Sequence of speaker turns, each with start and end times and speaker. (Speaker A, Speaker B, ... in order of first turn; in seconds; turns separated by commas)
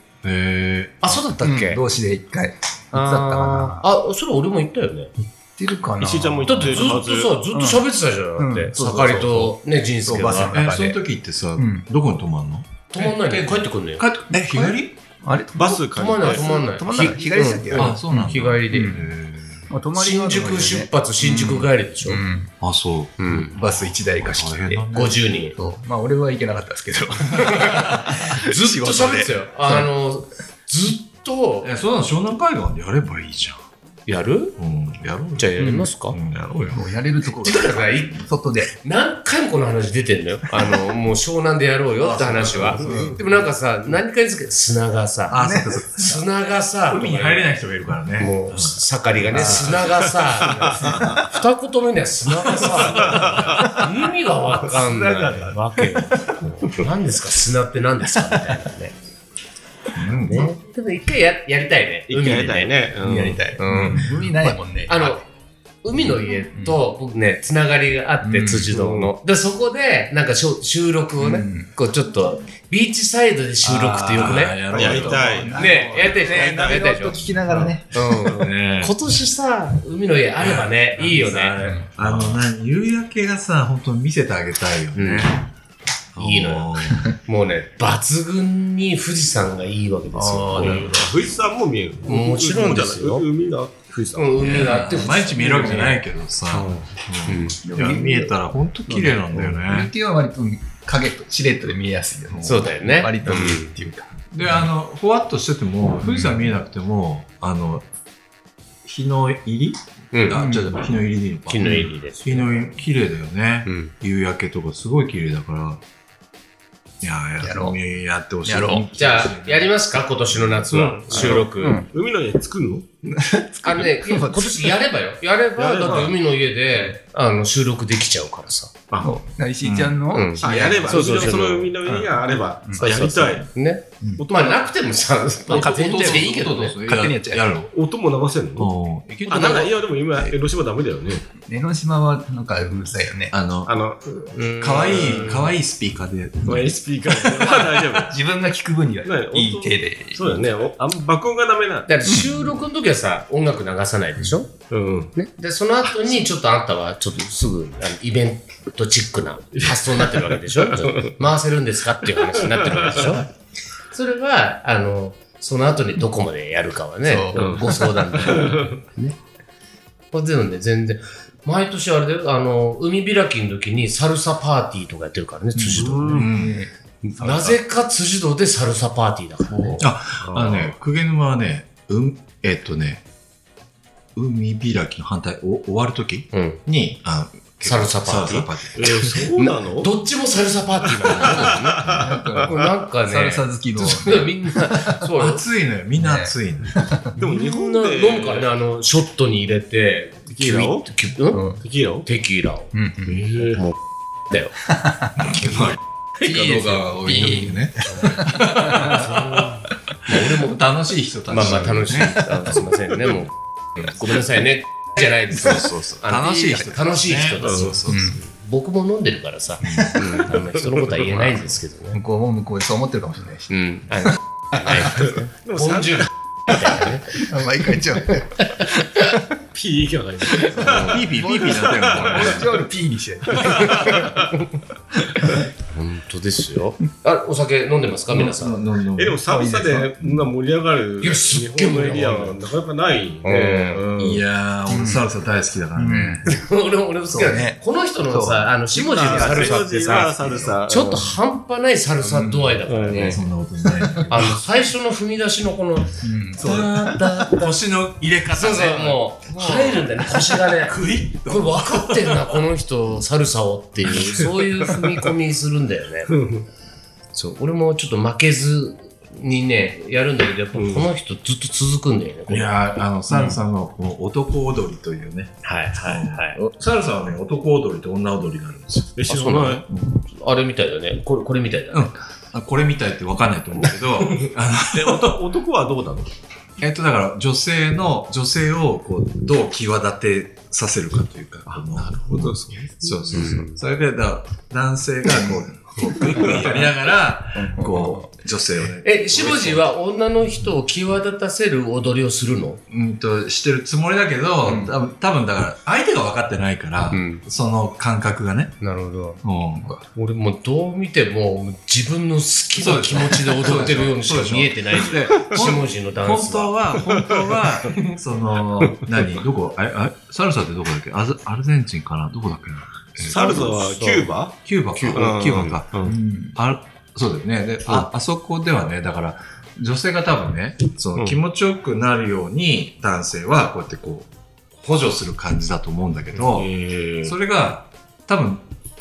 Speaker A: 0.2-1.2, Speaker B: 1.0-1.8, Speaker C: 1.4-3.9, Speaker B: 2.9-5.1, Speaker C: 5.6-7.8, Speaker D: 6.0-7.3, Speaker B: 6.5-10.6, Speaker C: 8.4-11.0, Speaker A: 10.5-14.9, Speaker C: 11.6-11.8, Speaker B: 12.9-14.1, Speaker C: 14.3-19.0, Speaker D: 15.6-17.2, Speaker B: 15.9-19.0, Speaker A: 17.7-19.7, Speaker C: 19.7-22.5, Speaker B: 19.9-22.2, Speaker A: 21.2-21.7, Speaker A: 22.6-25.2, Speaker B: 23.2-23.6, Speaker C: 23.5-29.9, Speaker B: 24.9-25.6, Speaker B: 27.4-31.7, Speaker A: 31.6-33.6, Speaker B: 34.1-34.5, Speaker A: 34.6-35.5, Speaker B: 35.4-36.2, Speaker C: 35.6-35.9, Speaker A: 36.1-36.9, Speaker C: 36.7-38.7, Speaker B: 37.4-47.5, Speaker A: 42.0-43.4, Speaker D: 42.5-43.1, Speaker C: 42.8-43.2, Speaker A: 45.3-46.2, Speaker C: 45.3-46.1, Speaker A: 46.9-51.2, Speaker B: 48.2-58.9, Speaker C: 49.3-49.9, Speaker D: 50.6-50.9, Speaker A: 52.6-53.7, Speaker D: 52.9-53.6, Speaker C: 54.8-55.6, Speaker A: 60.0-60.4, Speaker B: 60.2-62.7, Speaker D: 62.1-63.4, Speaker C: 63.0-65.2, Speaker B: 63.6-65.2, Speaker A: 63.7-64.0, Speaker B: 65.8-77.3, Speaker C: 68.2-68.7, Speaker D: 68.7-69.1, Speaker C: 71.2-71.7, Speaker C: 73.6-78.3, Speaker A: 74.1-76.2, Speaker D: 74.7-77.1, Speaker B: 77.9-81.8, Speaker A: 78.3-78.9, Speaker A: 80.4-85.4, Speaker C: 81.0-82.4, Speaker B: 84.9-85.3, Speaker A: 86.1-87.1, Speaker B: 86.2-91.0, Speaker C: 90.1-91.1, Speaker D: 90.5-94.6, Speaker B: 92.0-93.2, Speaker B: 94.2-96.0, Speaker A: 94.4-99.9, Speaker D: 96.5-96.9, Speaker B: 97.2-97.6, Speaker C: 97.6-104.6, Speaker B: 102.4-103.7, Speaker A: 104.3-107.8, Speaker C: 106.0-106.5, Speaker A: 108.8-115.8, Speaker B: 110.1-110.5, Speaker C: 110.3-110.8, Speaker B: 111.5-112.6, Speaker B: 113.7-113.9, Speaker A: 117.0-119.7, Speaker C: 117.4-117.8, Speaker C: 118.5-118.9, Speaker B: 118.9-121.8, Speaker D: 120.7-123.1, Speaker C: 121.2-121.9, Speaker C: 123.1-124.8, Speaker B: 123.6-128.7, Speaker D: 125.6-126.2, Speaker C: 129.0-131.3, Speaker A: 129.6-130.0, Speaker B: 130.1-131.7, Speaker D: 130.4-133.5, Speaker C: 131.9-132.1, Speaker B: 132.8-136.8, Speaker D: 134.2-134.7, Speaker C: 135.5-137.5, Speaker A: 135.5-137.7, Speaker D: 137.7-138.7, Speaker A: 138.6-140.3, Speaker D: 139.3-141.3, Speaker C: 141.5-143.3, Speaker A: 143.3-143.8, Speaker D: 143.7-144.2, Speaker B: 144.2-145.5, Speaker A: 144.6-146.7, Speaker D: 144.7-145.5, Speaker D: 146.4-148.2, Speaker C: 147.3-150.5, Speaker D: 149.0-151.9, Speaker B: 151.9-154.5, Speaker C: 152.1-152.5, Speaker D: 154.7-155.1, Speaker B: 155.1-163.2, Speaker D: 159.5-161.1, Speaker D: 162.3-163.1, Speaker B: 163.9-169.2, Speaker C: 167.0-167.9, Speaker D: 167.3-168.8, Speaker B: 170.1-176.3, Speaker C: 175.6-177.6, Speaker D: 175.7-176.3, Speaker A: 176.1-176.6, Speaker B: 177.0-179.9, Speaker A: 179.7-183.0, Speaker D: 180.2-180.7, Speaker A: 184.1-189.3, Speaker B: 186.3-186.6, Speaker B: 187.6-195.4, Speaker D: 188.7-189.9, Speaker D: 191.0-192.4, Speaker C: 191.9-195.1, Speaker A: 195.1-196.9, Speaker C: 196.0-197.2, Speaker D: 197.2-198.5, Speaker B: 197.2-201.5, Speaker D: 200.3-200.9, Speaker C: 201.3-201.6, Speaker D: 201.6-202.1, Speaker B: 202.0-202.7, Speaker C: 202.7-203.3, Speaker D: 203.0-203.7, Speaker B: 204.3-204.5, Speaker C: 204.6-205.3, Speaker A: 205.2-209.5, Speaker C: 206.2-209.1, Speaker B: 207.9-210.6, Speaker A: 210.1-212.7, Speaker B: 211.3-222.0, Speaker A: 215.3-218.2, Speaker D: 217.4-217.8, Speaker C: 217.9-218.2, Speaker A: 219.6-220.0, Speaker D: 220.0-220.9, Speaker C: 221.9-224.9, Speaker B: 223.5-227.3, Speaker D: 224.8-226.1, Speaker C: 227.2-229.1, Speaker B: 228.1-229.2, Speaker D: 229.5-232.5, Speaker B: 230.4-231.0, Speaker A: 230.6-232.6, Speaker C: 230.7-234.1, Speaker D: 233.3-234.3, Speaker B: 233.5-234.3, Speaker B: 235.7-238.6, Speaker A: 238.1-239.2, Speaker D: 238.9-244.2, Speaker C: 239.3-240.2, Speaker B: 241.0-242.4, Speaker B: 243.2-243.8, Speaker A: 243.9-246.3, Speaker C: 244.7-245.0, Speaker C: 245.7-246.2, Speaker B: 246.2-253.2, Speaker C: 247.1-249.6, Speaker D: 248.8-251.1, Speaker D: 252.7-253.2, Speaker A: 252.9-254.4, Speaker C: 253.8-254.0, Speaker B: 254.1-256.0, Speaker C: 256.0-257.2, Speaker A: 256.4-262.3, Speaker B: 258.3-266.1, Speaker C: 259.3-259.8, Speaker D: 266.1-266.4, Speaker B: 267.1-272.5, Speaker D: 270.5-270.9, Speaker A: 272.3-278.9, Speaker B: 273.1-273.4, Speaker B: 275.4-276.4, Speaker D: 278.9-279.6, Speaker B: 279.1-281.9, Speaker A: 279.7-280.0, Speaker A: 281.7-285.2, Speaker D: 284.7-286.1, Speaker A: 286.6-299.7, Speaker D: 291.5-293.4, Speaker B: 293.1-293.6, Speaker D: 296.0-296.3, Speaker C: 297.4-298.1, Speaker B: 298.8-302.6, Speaker A: 302.7-308.6, Speaker C: 304.4-304.7, Speaker B: 306.9-307.2, Speaker B: 308.6-309.2, Speaker A: 309.2-309.7, Speaker B: 309.9-316.5, Speaker A: 312.6-323.5, Speaker D: 316.9-317.8, Speaker D: 323.0-324.4, Speaker B: 323.1-324.1, Speaker A: 324.4-336.5, Speaker B: 324.7-325.1, Speaker D: 324.9-326.0, Speaker C: 325.9-326.4, Speaker D: 336.1-337.1, Speaker A: 337.0-338.4